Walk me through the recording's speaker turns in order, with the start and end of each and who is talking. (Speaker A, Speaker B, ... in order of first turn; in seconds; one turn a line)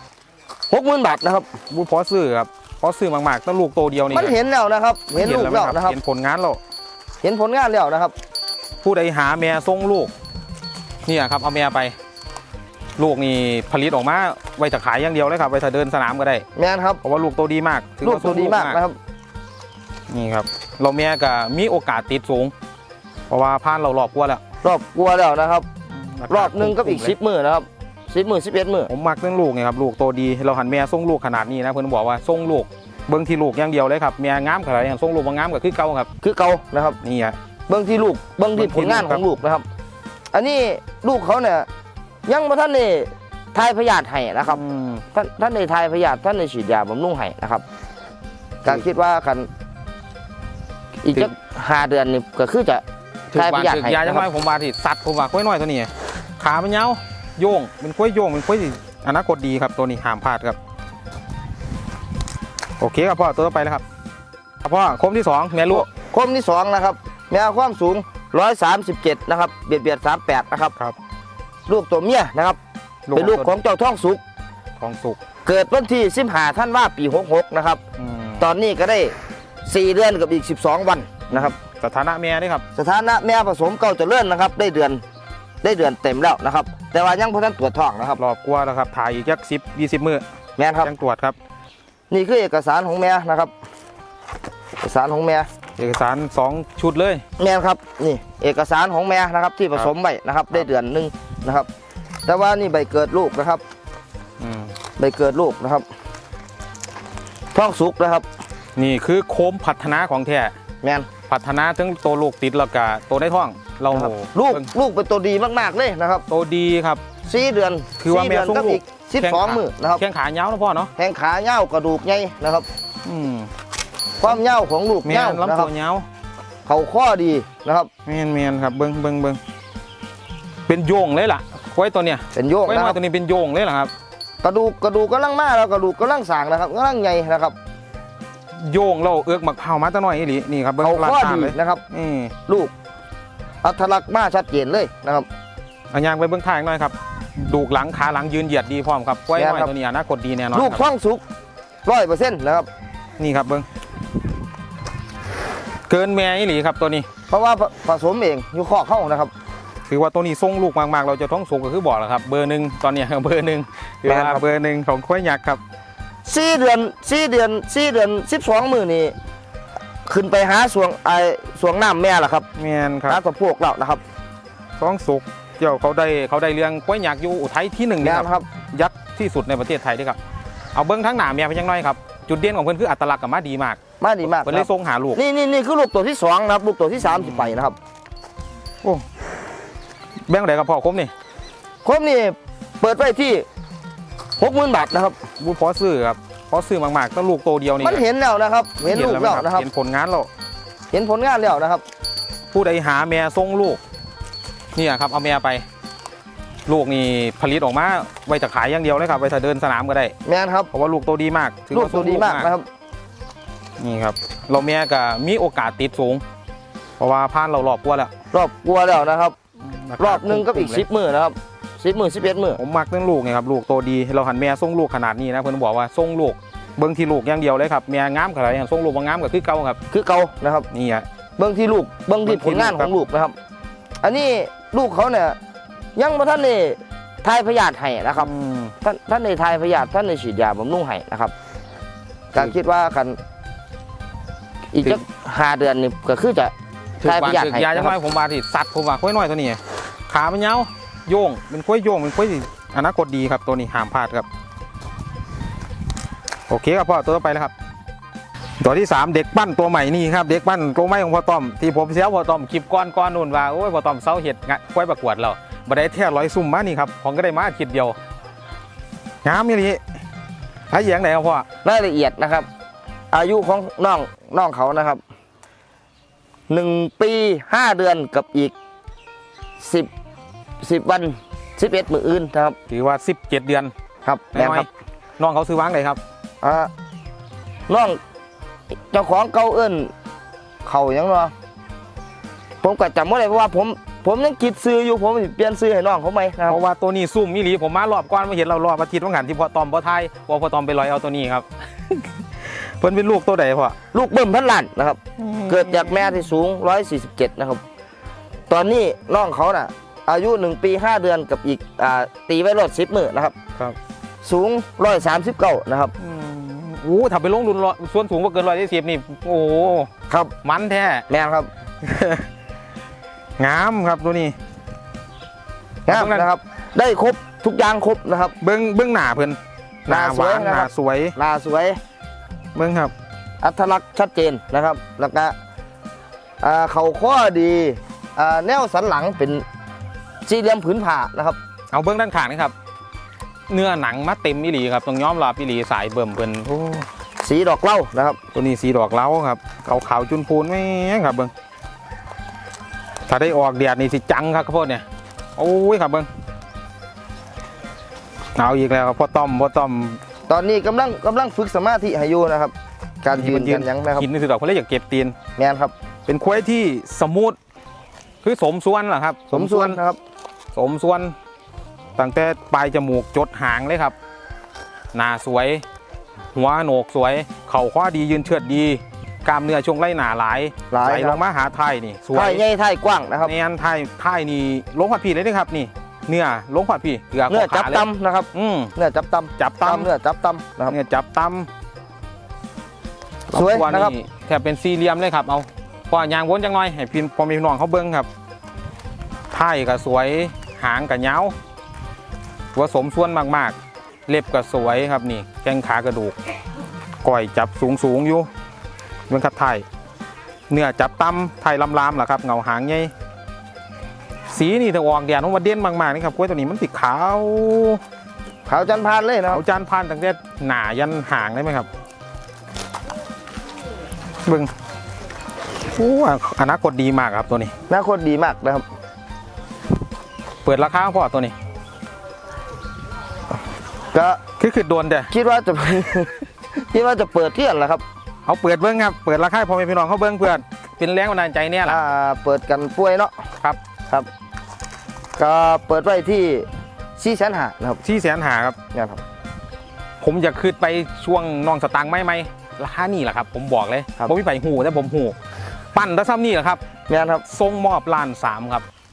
Speaker A: 0.7-1.5
Speaker B: 1.7-4.4
Speaker A: 4.1-6.0
Speaker B: 5.2-6.6
Speaker A: 7.2-8.1
Speaker B: 8.8-10.1
Speaker B: 11.1-12.0
Speaker B: 13.0-16.5
Speaker A: 16.6-17.0
Speaker B: 17.0-18.8
Speaker A: 18.0-19.0
Speaker B: 20.1-22.5
Speaker B: 23.3-24.4
Speaker A: 24.6-25.7
Speaker B: 25.9-27.1
Speaker A: 26.3-28.9
Speaker B: 28.9-36.1
Speaker A: 36.2-37.0
Speaker B: 37.0-37.4
Speaker A: 37.7-39.6
Speaker B: 38.5-39.2
Speaker A: 40.3-41.7
Speaker A: 42.3-44.6
Speaker B: 44.5-45.0
Speaker A: 45.1-47.6
Speaker A: 48.6-49.5
Speaker A: 51.0-54.3
Speaker B: 53.3-60.6
Speaker B: 62.8-63.8
Speaker B: 64.6-65.9
Speaker A: 65.7-70.8
Speaker A: 71.7-72.6
Speaker B: 73.1-73.5
Speaker A: 73.1-74.2
Speaker B: 74.8-75.2
Speaker A: 75.5-77.8
Speaker B: 78.0-78.5
Speaker A: 78.4-79.1
Speaker A: 79.7-81.5
Speaker B: 81.3-82.6
Speaker A: 82.8-85.0
Speaker A: 85.6-88.2
Speaker B: 88.2-90.2
Speaker A: 90.6-90.9
Speaker B: 90.8-91.4
Speaker A: 92.1-93.5
Speaker A: 94.8-95.5
Speaker B: 95.8-97.2
Speaker A: 97.4-101.7
Speaker A: 102.3-103.6
Speaker B: 104.4-104.7
Speaker A: 105.0-105.9
Speaker A: 107.5-108.3
Speaker B: 108.8-110.5
Speaker A: 110.8-111.1
Speaker B: 111.3-114.7
Speaker A: 113.9-116.2
Speaker B: 116.3-117.0
Speaker A: 117.2-120.0
Speaker B: 118.0-120.9
Speaker A: 121.0-122.7
Speaker B: 123.0-123.5
Speaker A: 124.2-125.7
Speaker B: 125.0-126.1
Speaker A: 126.7-127.9
Speaker B: 128.1-129.4
Speaker B: 130.7-133.9
Speaker A: 132.3-133.0
Speaker A: 134.4-137.6
Speaker B: 138.6-142.3
Speaker A: 140.8-141.8
Speaker A: 142.5-142.7
Speaker A: 143.6-145.3
Speaker B: 145.9-150.8
Speaker A: 149.4-149.7
Speaker A: 150.5-151.2
Speaker A: 151.8-152.7
Speaker B: 153.2-153.7
Speaker B: 155.9-157.1
Speaker A: 157.3-159.3
Speaker B: 159.9-165.6
Speaker A: 164.1-164.4
Speaker A: 166.2-169.2
Speaker A: 170.1-172.5
Speaker B: 172.6-173.2
Speaker A: 173.1-174.0
Speaker B: 174.8-180.2
Speaker A: 178.0-178.5
Speaker B: 180.7-185.2
Speaker A: 184.0-187.8
Speaker B: 187.1-187.6
Speaker B: 190.3-191.1
Speaker A: 191.8-193.4
Speaker A: 194.4-195.2
Speaker B: 195.4-198.1
Speaker A: 197.8-199.7
Speaker B: 198.8-200.3
Speaker A: 200.9-201.8
Speaker B: 202.5-203.8
Speaker B: 204.8-205.7
Speaker B: 206.7-210.2
Speaker A: 210.2-210.7
Speaker B: 210.7-212.5
Speaker A: 211.7-212.7
Speaker B: 213.8-216.2
Speaker B: 217.0-218.1
Speaker A: 218.3-219.4
Speaker B: 219.6-220.8
Speaker A: 220.0-222.6
Speaker B: 222.6-229.8
Speaker A: 229.9-230.7
Speaker B: 230.7-231.1
Speaker A: 231.4-233.3
Speaker B: 232.2-232.9
Speaker A: 234.0-235.4
Speaker A: 236.0-241.3
Speaker B: 238.2-238.7
Speaker A: 242.3-243.2
Speaker A: 244.7-248.0
Speaker B: 247.0-254.3
Speaker B: 256.5-257.5
Speaker B: 258.6-268.0
Speaker B: 269.2-269.8
Speaker B: 270.7-271.5
Speaker A: 271.6-272.5
Speaker A: 273.1-275.0
Speaker A: 276.5-278.5
Speaker A: 279.6-279.9
Speaker A: 280.6-282.6
Speaker B: 282.7-283.7
Speaker A: 284.1-284.7
Speaker B: 284.3-284.7
Speaker B: 285.2-286.0
Speaker A: 286.4-286.7
Speaker A: 287.7-288.0
Speaker A: 288.9-289.9
Speaker A: 290.6-291.3
Speaker A: 292.6-296.6
Speaker B: 296.5-303.8
Speaker A: 303.9-307.6
Speaker B: 305.2-306.2
Speaker A: 308.5-313.4
Speaker A: 314.2-315.9
Speaker B: 316.0-319.9
Speaker B: 320.4-321.1
Speaker A: 321.1-321.5
Speaker B: 321.8-322.3
Speaker B: 323.4-324.4
Speaker A: 325.9-328.4
Speaker B: 325.9-326.3
Speaker B: 328.4-331.2
Speaker A: 329.9-331.8
Speaker B: 332.6-332.9
Speaker A: 333.4-335.4
Speaker A: 336.4-339.4
Speaker A: 340.3-341.4
Speaker B: 341.7-342.5
Speaker B: 343.5-346.9
Speaker A: 347.2-348.2
Speaker B: 348.3-351.3
Speaker B: 353.1-354.8
Speaker B: 355.4-356.1
Speaker B: 358.4-360.0
Speaker A: 360.3-364.1
Speaker B: 363.1-365.2
Speaker A: 365.4-365.7
Speaker B: 366.1-367.4
Speaker B: 368.2-369.8
Speaker A: 369.3-370.0
Speaker B: 370.6-371.2
Speaker B: 372.0-373.9
Speaker B: 374.9-375.6
Speaker B: 376.3-382.4
Speaker A: 380.7-381.2
Speaker A: 382.1-383.3
Speaker B: 383.2-388.7
Speaker A: 387.3-390.8
Speaker B: 389.4-389.9
Speaker B: 390.7-391.5
Speaker B: 393.3-398.1
Speaker A: 393.3-393.9
Speaker B: 399.3-401.4
Speaker B: 402.5-403.6
Speaker B: 404.1-406.2
Speaker B: 407.0-408.3
Speaker B: 409.1-409.7
Speaker B: 410.5-412.9
Speaker B: 414.3-417.8
Speaker A: 418.5-419.4
Speaker B: 419.3-421.7
Speaker B: 424.3-424.5
Speaker B: 425.7-427.5
Speaker A: 427.7-428.6
Speaker B: 430.4-431.3
Speaker A: 433.9-434.2
Speaker B: 434.4-435.1
Speaker A: 435.1-437.8
Speaker B: 438.3-441.8
Speaker A: 441.7-443.2
Speaker A: 445.2-447.8
Speaker B: 447.8-448.6
Speaker A: 448.7-449.0
Speaker B: 450.0-455.2
Speaker B: 455.7-456.6
Speaker A: 456.9-457.2
Speaker B: 457.3-458.6